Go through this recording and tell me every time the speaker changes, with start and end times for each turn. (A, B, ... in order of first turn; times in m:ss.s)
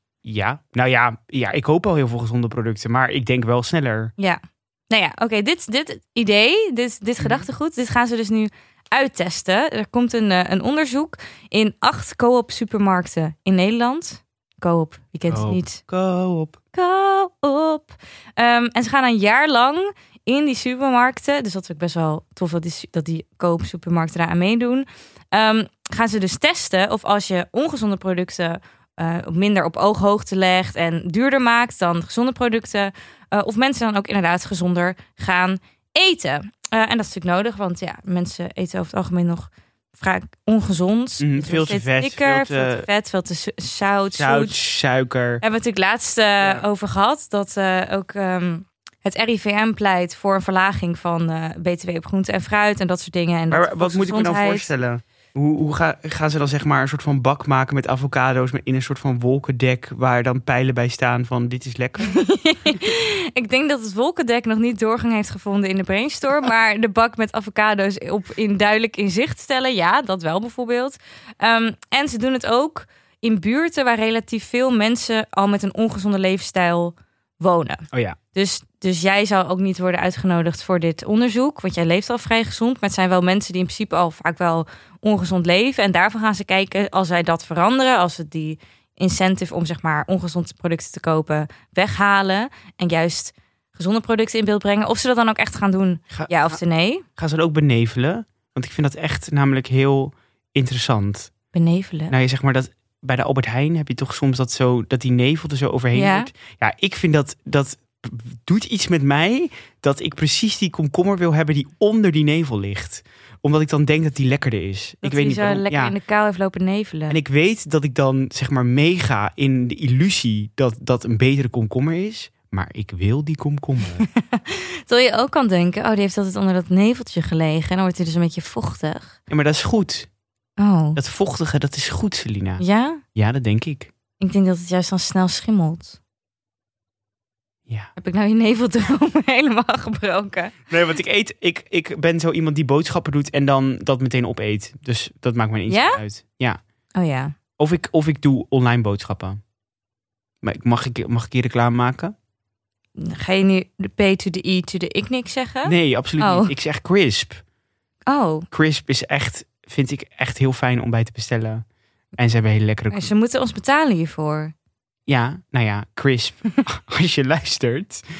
0:00.2-0:04.1 A
0:04.2-0:15.8 B
0:07.2-0:07.5 A
0:15.3-0:16.6 A
0:16.7-0:44.6 B
0:41.2-0:42.8 A
0:44.2-0:45.4 A
0:45.4-0:54.7 B
0:46.4-0:46.6 A
0:53.5-1:02.2 A
1:02.0-1:37.0 B
1:17.9-1:18.2 A
1:36.1-1:36.6 A
1:37.2-1:41.3 A
1:41.5-1:42.1 B
1:42.1-1:55.9 A
1:45.9-1:46.3 B
1:55.0-1:57.2 B
1:57.1-2:04.0 A
2:04.1-2:09.2 B
2:09.3-2:10.1 A
2:10.6-2:11.0 B
2:11.0-2:12.6 A
2:12.6-2:13.0 B
2:13.1-2:13.9 A
2:14.2-2:16.0 B
2:18.0-2:20.6 B
2:20.7-2:26.6 A
2:25.7-2:26.0 B
2:27.0-2:27.3 B
2:27.6-2:29.4 A
2:30.4-2:32.1 A
2:33.0-2:36.5 B
2:35.6-2:37.4 A
2:38.1-2:38.5 B
2:38.5-2:41.6 A
2:42.2-2:43.1 A
2:42.9-2:44.5 B
2:45.1-2:48.0 A